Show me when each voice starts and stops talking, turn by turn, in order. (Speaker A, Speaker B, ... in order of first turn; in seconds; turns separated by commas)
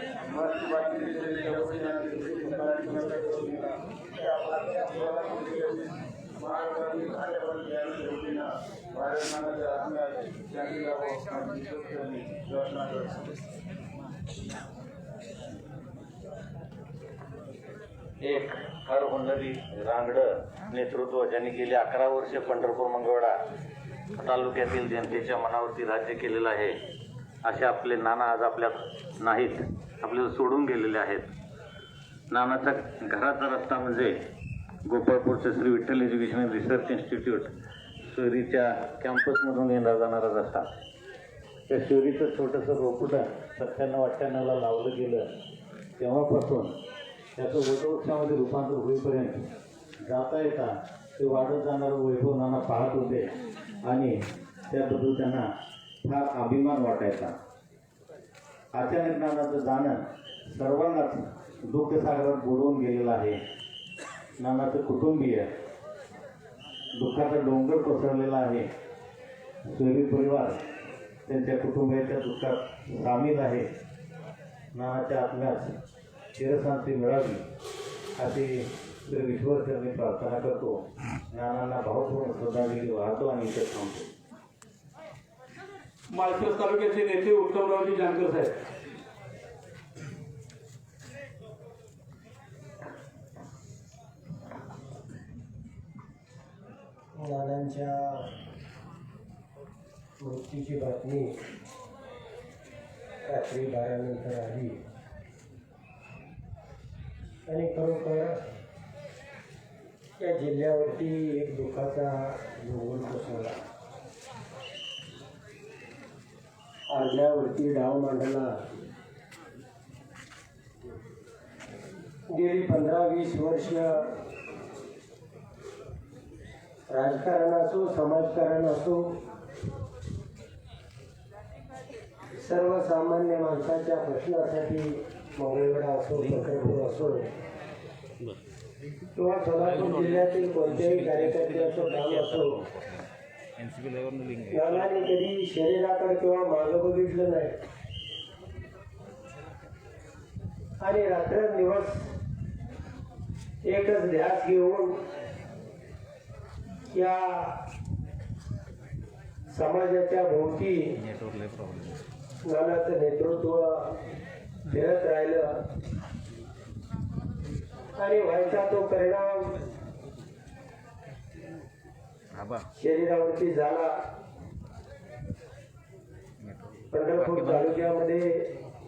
Speaker A: 0.2-13.3, Speaker B: 18.2-23.3, Speaker B: 24.2-26.8, Speaker B: 27.4-31.3, Speaker B: 32.3-34.1, Speaker B: 34.8-37.5, Speaker B: 38.1-40.6, Speaker B: 41.7-45.2, Speaker B: 46.0-46.7, Speaker B: 47.4-49.4, Speaker B: 50.0-53.3, Speaker B: 53.8-54.1, Speaker B: 54.7-55.4, Speaker B: 56.0-57.3, Speaker B: 58.7-63.4, Speaker B: 64.4-65.5, Speaker B: 66.9-68.7, Speaker B: 69.7-70.6, Speaker B: 71.3-73.7, Speaker B: 74.7-75.7, Speaker B: 76.4-77.4, Speaker B: 78.2-80.8, Speaker B: 81.3-84.1, Speaker C: 86.1-88.5, Speaker D: 97.2-98.2, Speaker D: 100.2-101.3, Speaker D: 103.3-104.8, Speaker D: 107.5-108.3, Speaker D: 110.2-113.6, Speaker D: 116.9-118.6, Speaker D: 122.3-124.1, Speaker D: 126.9-129.0, Speaker D: 132.4-137.3, Speaker D: 139.1-142.6, Speaker B: 139.7-140.2, Speaker B: 140.8-143.0, Speaker B: 143.6-145.1, Speaker D: 144.5-147.5, Speaker D: 150.8-152.1, Speaker D: 153.6-154.9, Speaker D: 156.9-157.6, Speaker D: 159.5-161.0, Speaker B: 161.2-161.9, Speaker D: 162.4-164.0, Speaker D: 164.7-165.6, Speaker D: 168.0-169.6, Speaker D: 172.8-173.9, Speaker D: 176.9-178.4